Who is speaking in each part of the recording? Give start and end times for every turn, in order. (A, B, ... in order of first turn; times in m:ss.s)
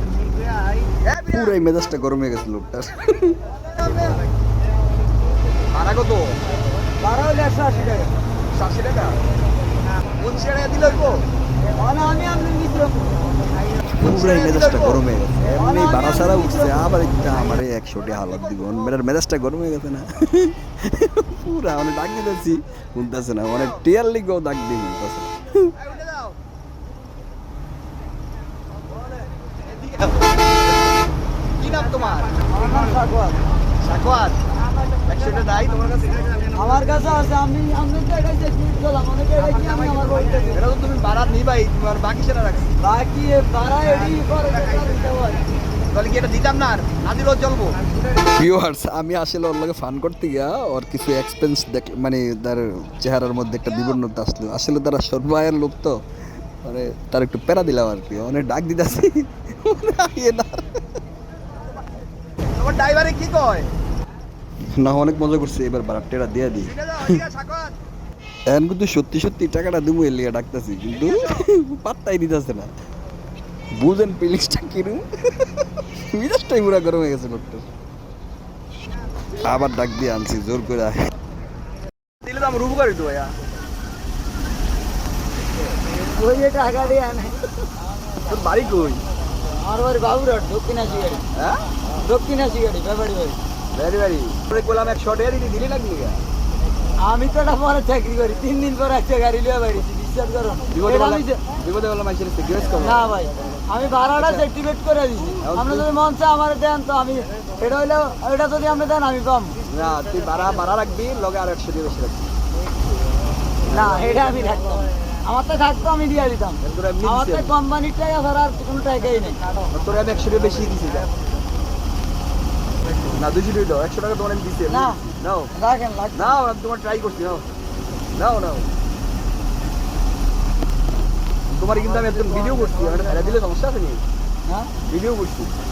0:01.0-0:01.6 A
0:01.3-0:03.4 B
0:03.7-0:04.2 A
0:05.7-0:06.4 A
0:07.0-0:08.1 C
0:08.5-0:09.2 A
0:10.2-0:11.2 A
0:11.7-0:13.2 C
0:14.0-0:25.8 B
0:14.0-0:15.0 A
0:15.4-0:17.0 C
0:15.7-0:16.0 A
0:18.2-0:18.9 A
0:23.5-0:23.8 A
0:25.7-0:26.4 A
0:31.6-0:32.4 A
0:32.5-0:33.4 C
0:33.8-0:34.4 A
0:35.0-0:36.6 A
0:36.5-0:40.6 C
0:40.5-0:42.7 A
0:42.8-0:45.4 C
0:45.9-0:47.8 A
0:48.3-0:56.0 B
0:56.6-1:00.8 B
1:02.6-1:03.7 A
1:04.8-1:07.2 B
1:06.6-1:07.8 A
1:08.5-1:12.7 B
1:11.0-1:11.4 A
1:13.7-1:17.7 B
1:19.3-1:21.0 B
1:22.2-1:23.3 A
1:26.2-1:27.4 C
1:28.2-1:29.0 A
1:29.6-1:31.2 C
1:31.4-1:31.6 A
1:32.0-1:33.4 C
1:33.7-1:36.2 A
1:37.0-1:41.4 C
1:40.7-1:43.1 A
1:42.8-1:49.6 C
1:44.2-1:44.4 A
1:45.4-1:45.9 A
1:49.7-1:52.3 A
1:53.6-1:59.4 C
1:56.6-1:57.5 A
1:59.7-2:01.1 A
2:03.1-2:05.5 A
2:04.7-2:06.4 C
2:06.1-2:07.4 A
2:08.1-2:08.7 A
2:11.5-2:14.0 A
2:14.5-2:14.7 C
2:14.9-2:15.6 A